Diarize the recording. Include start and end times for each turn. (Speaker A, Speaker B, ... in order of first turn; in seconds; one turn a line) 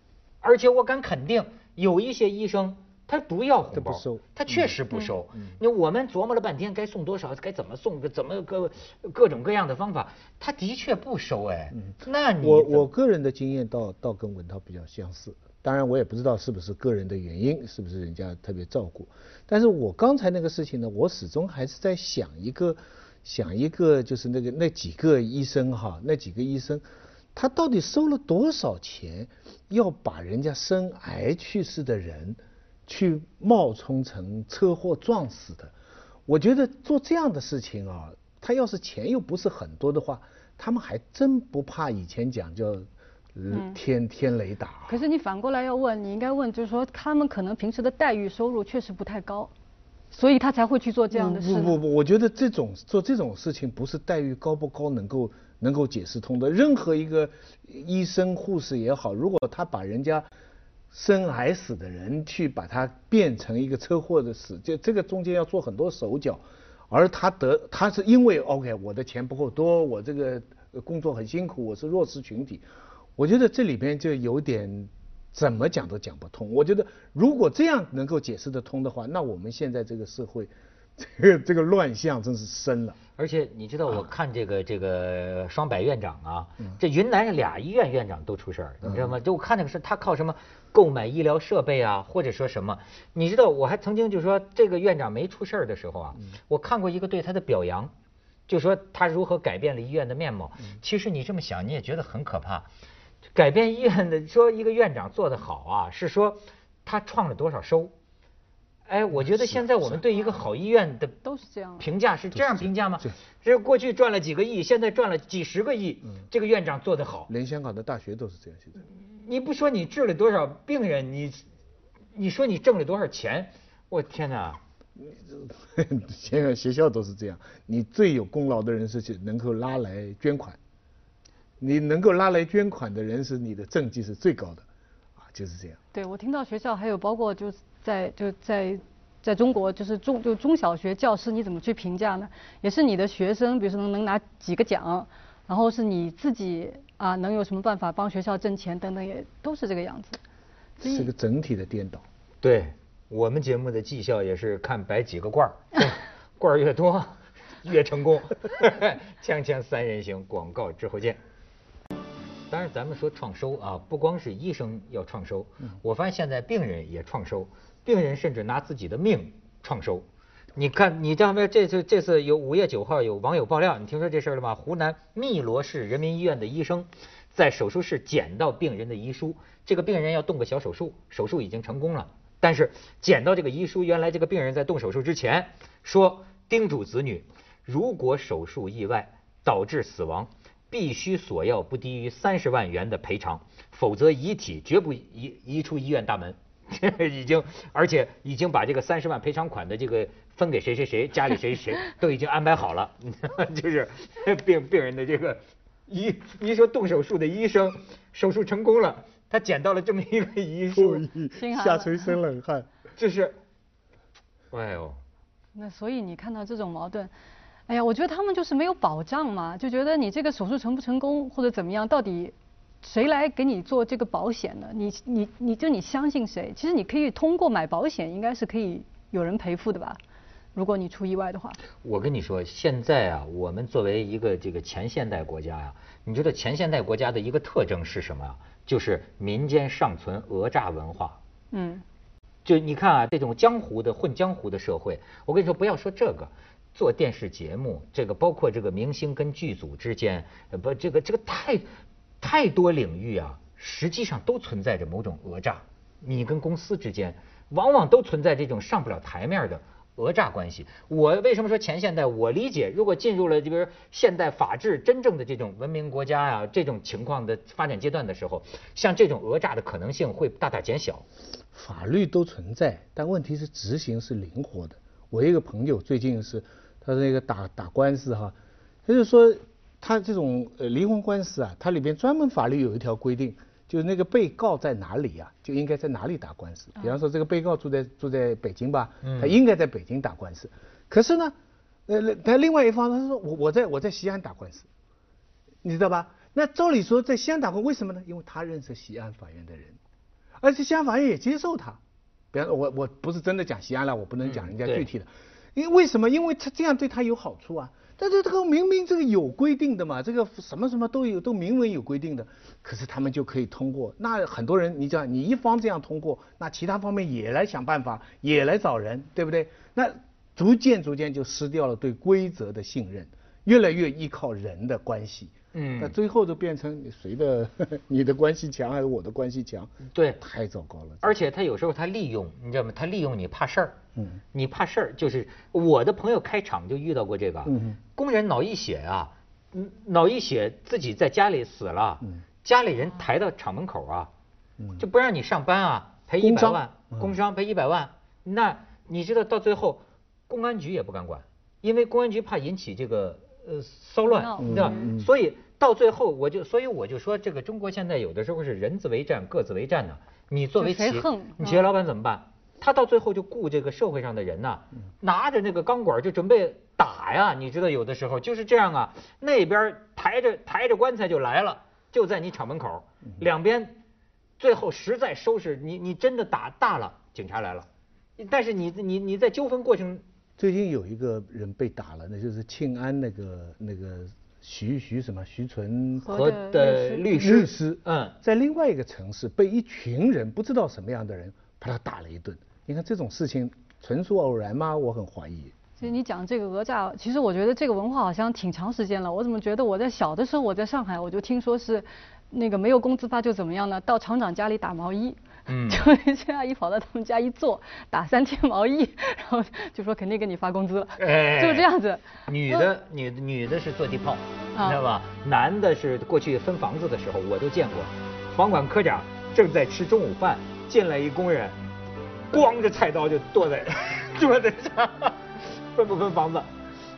Speaker A: 0.4-12.9
Speaker B: 3.7-4.7
Speaker B: 11.7-35.7
Speaker B: 36.3-45.0
Speaker C: 43.5-43.8
Speaker C: 44.9-49.5
Speaker C: 50.1-51.8
Speaker B: 51.1-60.3
Speaker B: 60.9-83.0
Speaker A: 83.2-97.9
Speaker B: 88.8-89.1
Speaker A: 98.5-102.7
Speaker A: 103.3-107.9
Speaker A: 108.9-111.2
Speaker B: 109.2-110.0
Speaker C: 111.2-111.9
Speaker A: 111.8-117.3
Speaker B: 112.3-113.2
Speaker B: 117.3-118.8
Speaker A: 119.0-121.5
Speaker A: 122.2-124.6
Speaker B: 125.0-130.6
Speaker B: 131.6-134.7
Speaker B: 135.2-135.8
Speaker C: 135.9-150.2
Speaker C: 150.8-151.1
Speaker B: 150.8-152.0
Speaker A: 152.4-161.2
Speaker A: 162.5-170.1
Speaker A: 170.6-211.1
Speaker B: 210.7-212.7
Speaker C: 211.3-212.1
Speaker A: 213.0-213.4
Speaker A: 214.5-215.0
Speaker C: 215.6-217.1
Speaker C: 217.7-230.0
Speaker C: 230.6-231.6
Speaker A: 231.8-241.2
Speaker C: 241.5-241.8
Speaker A: 242.4-251.7
Speaker A: 252.2-271.1
Speaker B: 271.5-291.4
Speaker A: 289.0-289.3
Speaker B: 291.9-294.7
Speaker B: 295.6-299.8
Speaker B: 300.4-301.8
Speaker B: 302.3-331.2
Speaker A: 304.2-304.9
Speaker A: 325.5-326.0
Speaker A: 329.9-330.2
Speaker A: 331.0-333.8
Speaker B: 334.0-334.2
Speaker A: 334.3-344.1
Speaker B: 337.5-337.8
Speaker A: 344.8-373.8
Speaker B: 346.2-347.2
Speaker C: 354.1-354.9
Speaker B: 354.4-355.1
Speaker C: 360.6-361.6
Speaker A: 374.4-377.7
Speaker A: 378.2-380.0
Speaker B: 380.4-386.2
Speaker C: 386.0-387.1
Speaker A: 386.1-388.2
Speaker B: 387.1-395.6
Speaker C: 395.8-412.7
Speaker A: 405.5-405.9
Speaker A: 411.0-411.7
Speaker A: 412.3-421.6
Speaker C: 414.6-414.8
Speaker A: 422.3-426.5